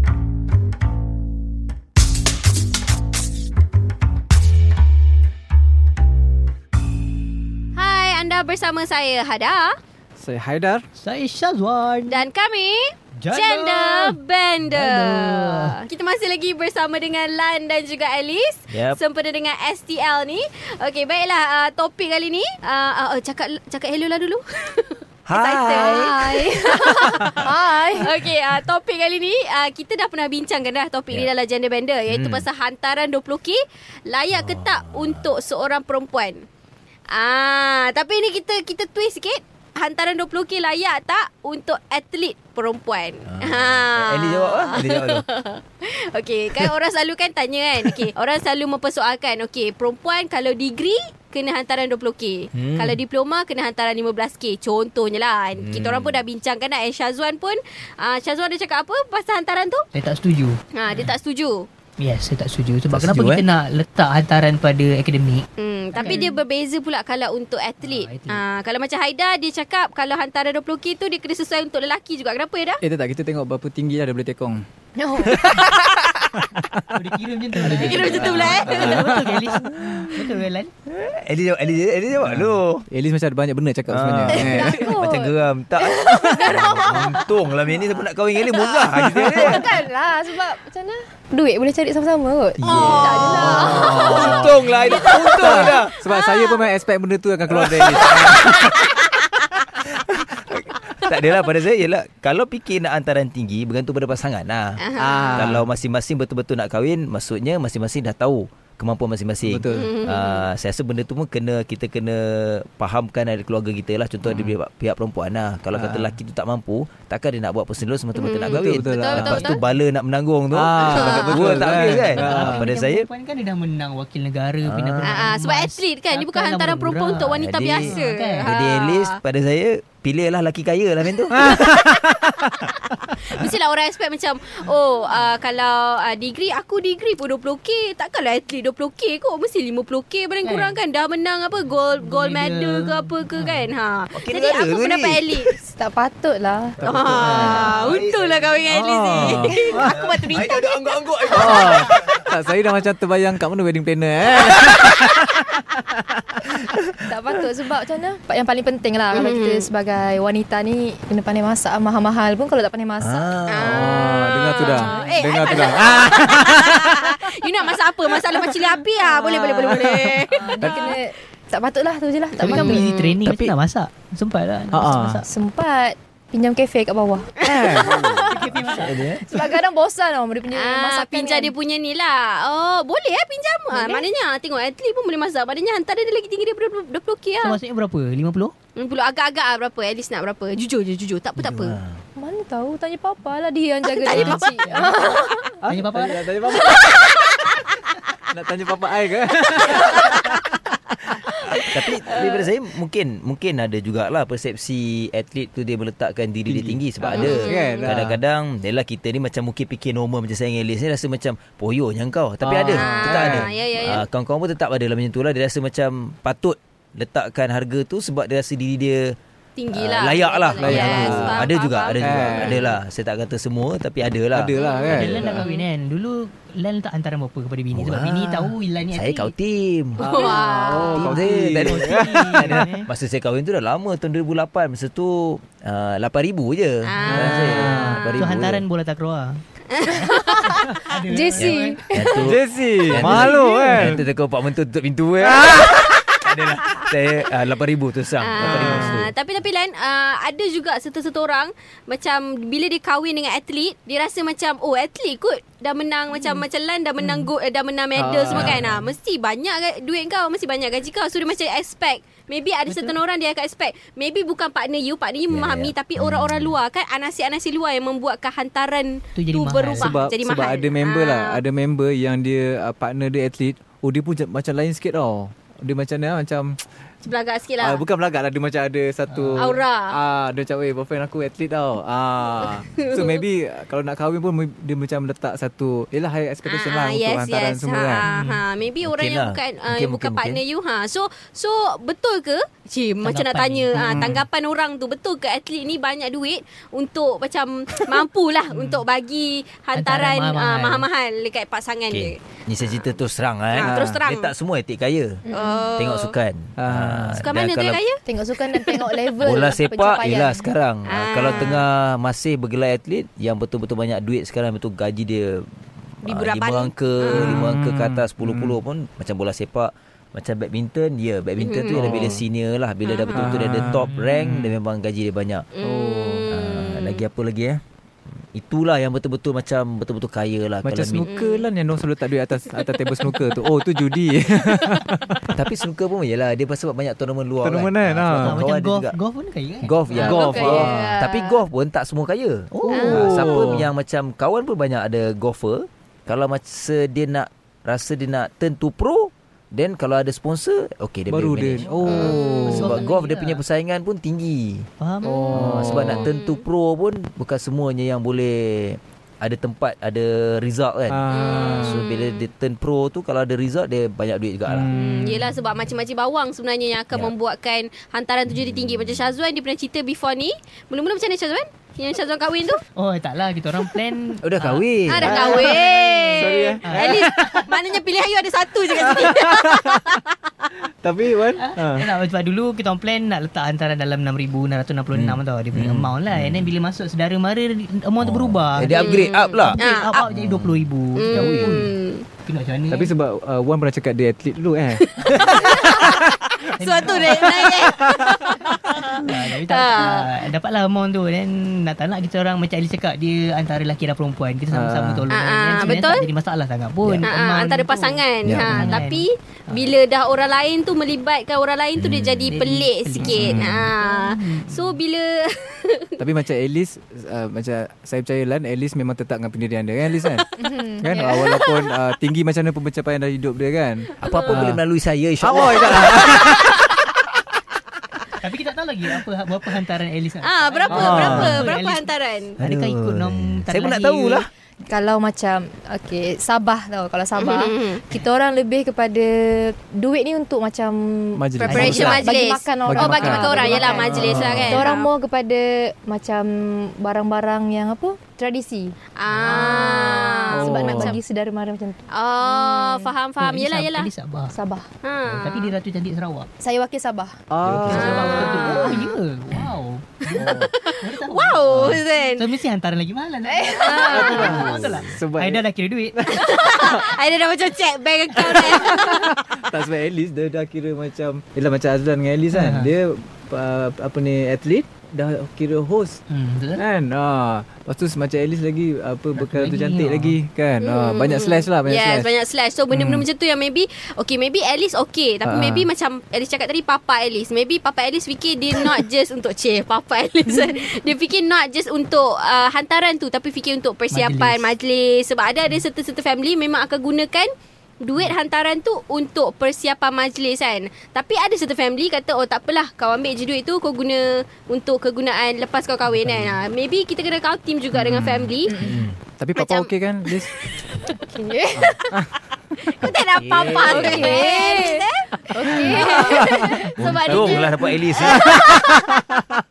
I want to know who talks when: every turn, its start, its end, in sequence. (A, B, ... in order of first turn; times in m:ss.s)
0:07.8-0:09.8 A
0:10.2-0:10.8 B
0:11.0-0:12.2 C
0:12.1-0:36.4 A
0:13.2-0:14.2 C
0:14.7-0:15.7 C
0:18.7-0:19.0 D
0:25.3-0:26.2 D
0:25.7-0:28.1 E
0:32.1-0:32.4 D
0:34.3-0:35.3 D
0:37.1-0:59.8 A
0:43.2-0:45.2 D
0:52.5-0:53.0 D
0:55.6-0:56.2 D
0:59.9-1:01.1 C
1:00.8-1:01.7 A
1:02.0-1:06.2 C
1:02.9-1:03.4 D
1:05.6-1:12.8 A
1:07.8-1:08.4 C
1:12.8-1:14.6 B
1:15.0-1:15.7 E
1:15.3-1:15.6 D
1:16.9-1:20.7 C
1:17.6-1:19.2 A
1:17.7-1:18.5 E
1:18.0-1:20.1 B
1:20.9-1:22.8 D
1:22.2-1:24.9 B
1:23.9-1:29.6 D
1:24.3-1:25.3 E
1:26.0-1:26.8 A
1:26.1-1:27.2 E
1:28.8-1:34.4 E
1:29.0-1:29.6 B
1:32.6-1:38.5 B
1:32.6-1:36.7 A
1:32.6-1:35.9 D
1:37.5-1:38.9 D
1:38.5-1:38.9 A
1:39.7-2:03.1 D
1:44.8-1:45.4 A
1:45.0-1:45.7 B
1:49.4-1:50.0 B
1:49.7-1:50.4 A
1:55.7-1:56.2 B
1:58.1-1:59.6 A
1:58.5-1:59.6 B
2:00.5-2:02.7 B
2:00.9-2:01.4 A
2:01.7-2:08.5 C
2:04.6-2:05.2 D
2:05.0-2:09.2 A
2:07.4-2:11.8 D
2:11.3-2:25.5 A
2:11.5-2:11.9 B
2:20.4-2:20.7 C
2:22.0-2:23.7 C
2:24.1-2:25.5 D
2:25.6-2:27.8 E
2:26.8-2:27.9 B
2:26.8-2:30.8 A
2:27.6-2:32.2 D
2:28.6-2:30.0 B
2:29.4-2:29.8 E
2:31.3-2:34.9 B
2:34.4-2:35.0 D
2:37.0-2:43.3 E
2:39.1-2:39.7 A
2:43.0-2:43.8 D
2:43.5-2:51.0 A
2:43.6-2:47.1 B
2:44.5-2:46.3 E
2:49.0-2:52.9 E
2:49.8-2:50.9 B
2:52.4-2:55.2 C
2:52.4-2:53.2 A
2:54.7-2:55.2 B
2:55.2-2:58.2 E
2:57.4-2:58.0 B
2:57.5-2:58.5 A
2:57.9-2:59.2 D
2:58.3-2:59.4 C
2:58.8-3:01.5 E
3:00.5-3:07.6 A
3:03.7-3:04.1 E
3:07.4-3:08.5 C
3:08.8-3:11.8 A
3:11.4-3:12.0 D
3:12.2-3:15.5 E
3:13.9-3:15.2 A
3:14.1-3:14.9 C
3:15.6-3:16.9 B
3:15.7-3:16.2 C
3:16.5-3:17.0 A
3:18.3-3:20.4 B
3:21.5-3:39.2 D
3:22.1-3:22.4 A
3:26.5-3:28.2 B
3:27.1-3:28.0 A
3:32.4-3:33.5 B
3:32.7-3:34.0 A
3:39.6-3:42.7 A
3:39.7-3:44.5 D
3:40.6-3:42.7 B
3:44.3-3:45.4 B
3:44.5-3:45.6 A
3:44.9-3:49.3 C
3:47.7-3:50.3 D
3:50.0-3:52.6 B
3:50.0-3:51.1 A
3:50.9-3:58.6 D
3:51.6-3:52.9 C
3:56.8-3:57.4 A
3:57.0-3:58.0 B
3:57.6-3:59.4 C
3:59.7-4:00.4 A
4:00.4-4:02.2 E
4:00.8-4:01.8 C
4:01.3-4:09.1 D
4:02.2-4:04.0 B
4:05.2-4:05.7 B
4:08.2-4:31.4 A
4:08.4-4:08.9 B
4:17.9-4:18.7 B
4:18.3-4:18.7 D
4:22.7-4:23.0 C
4:25.3-4:26.5 D
4:29.1-4:29.9 C
4:29.7-4:36.6 B
4:37.0-4:37.8 A
4:37.6-4:48.0 B
4:39.1-4:39.4 C
4:39.4-4:39.9 A
4:42.8-4:43.2 A
4:46.4-5:02.2 A
4:48.0-4:48.4 C
4:48.8-4:50.4 D
4:53.0-4:54.1 C
4:53.7-4:54.2 B
4:59.7-5:00.8 C
5:01.9-5:05.2 D
5:03.5-5:04.3 A
5:03.6-5:04.0 B
5:05.3-5:05.7 E
5:05.3-5:06.1 A
5:05.8-5:07.8 D
5:06.6-5:07.3 B
5:07.2-5:08.8 A
5:08.0-5:10.4 E
5:09.2-5:25.5 D
5:10.9-5:11.6 A
5:16.0-5:17.4 A
5:17.1-5:18.6 B
5:21.4-5:21.9 A
5:21.7-5:22.2 B
5:22.8-5:23.3 A
5:23.1-5:24.5 B
5:25.5-5:27.0 A
5:25.6-5:26.3 B
5:26.3-5:27.6 D
5:28.3-5:31.1 D
5:30.6-5:35.2 B
5:31.0-5:31.5 A
5:32.5-5:33.1 A
5:35.3-5:39.0 D
5:37.4-5:38.4 B
5:38.2-5:40.4 C
5:39.6-5:54.7 D
5:40.0-5:41.4 E
5:40.0-5:41.0 B
5:42.5-5:43.7 B
5:42.6-5:43.0 C
5:42.7-5:43.1 A
5:51.1-5:52.8 B
5:51.8-5:52.9 A
5:52.5-5:53.4 C
5:54.8-5:55.4 C
5:55.0-5:55.3 A
5:55.0-5:56.1 B
5:55.3-6:04.7 D
5:56.0-5:56.4 A
6:00.9-6:01.8 B
6:01.1-6:02.3 A
6:04.5-6:05.3 B
6:04.7-6:12.6 A
6:08.5-6:09.0 D
6:12.7-6:16.1 C
6:14.2-6:15.3 D
6:14.9-6:20.0 A
6:15.0-6:17.2 B
6:16.6-6:17.5 C
6:18.8-6:19.6 B
6:20.8-6:21.9 B
6:21.4-6:32.9 C
6:24.9-6:26.5 D
6:28.0-6:30.7 D
6:28.7-6:30.1 A
6:31.0-6:32.0 A
6:31.1-6:31.5 B
6:32.7-6:34.8 B
6:35.0-6:40.1 A
6:36.6-6:37.3 C
6:37.2-6:37.5 B
6:39.0-6:49.7 C
6:44.5-6:45.1 B
6:45.1-6:46.1 A
6:46.8-6:47.1 B
6:47.0-6:55.8 A
6:48.2-6:48.8 B
6:51.8-6:52.3 D
6:52.3-6:54.7 C
6:53.0-6:53.7 B
6:56.0-7:00.2 B
7:00.4-7:01.4 E
7:00.8-7:04.6 B
7:00.9-7:01.6 A
7:04.0-7:06.8 D
7:04.0-7:04.5 A
7:05.2-7:06.5 B
7:06.1-7:06.5 A
7:08.1-7:14.2 C
7:10.2-7:12.4 A
7:10.7-7:11.4 B
7:11.0-7:11.4 D
7:12.4-7:14.3 D
7:14.6-7:32.9 E
7:17.1-7:17.8 A
7:21.2-7:24.7 B
7:21.4-7:24.9 A
7:29.0-7:31.0 A
7:29.2-7:29.6 C
7:30.3-7:31.0 B
7:31.9-7:33.9 A
7:33.2-7:34.3 C
7:34.3-7:34.7 E
7:34.8-7:35.5 A
7:35.1-7:36.3 C
7:36.4-7:37.2 E
7:37.3-7:38.4 B
7:37.4-7:38.0 D
7:37.7-7:46.0 C
7:37.7-7:38.9 A
7:38.2-7:38.8 E
7:40.2-7:40.5 B
7:40.2-7:42.2 A
7:43.2-7:44.5 E
7:43.5-7:44.4 A
7:43.7-7:45.4 B
7:46.0-7:46.8 B
7:46.1-7:49.1 A
7:48.2-7:56.0 B
7:52.3-7:52.7 C
7:56.1-7:56.6 C
7:56.6-8:02.1 B
7:59.2-8:00.2 C
8:00.6-8:17.3 A
8:02.7-8:03.0 B
8:05.2-8:05.7 B
8:13.9-8:14.5 C
8:17.8-8:28.6 A
8:27.7-8:28.4 B
8:28.5-8:28.8 E
8:28.6-8:29.0 D
8:29.0-8:30.4 B
8:29.4-8:30.7 A
8:30.9-8:31.9 E
8:31.5-8:32.1 B
8:32.8-8:39.1 A
8:33.2-8:34.2 D
8:33.4-8:36.8 E
8:35.5-8:36.6 B
8:36.8-8:38.4 D
8:38.1-8:39.0 B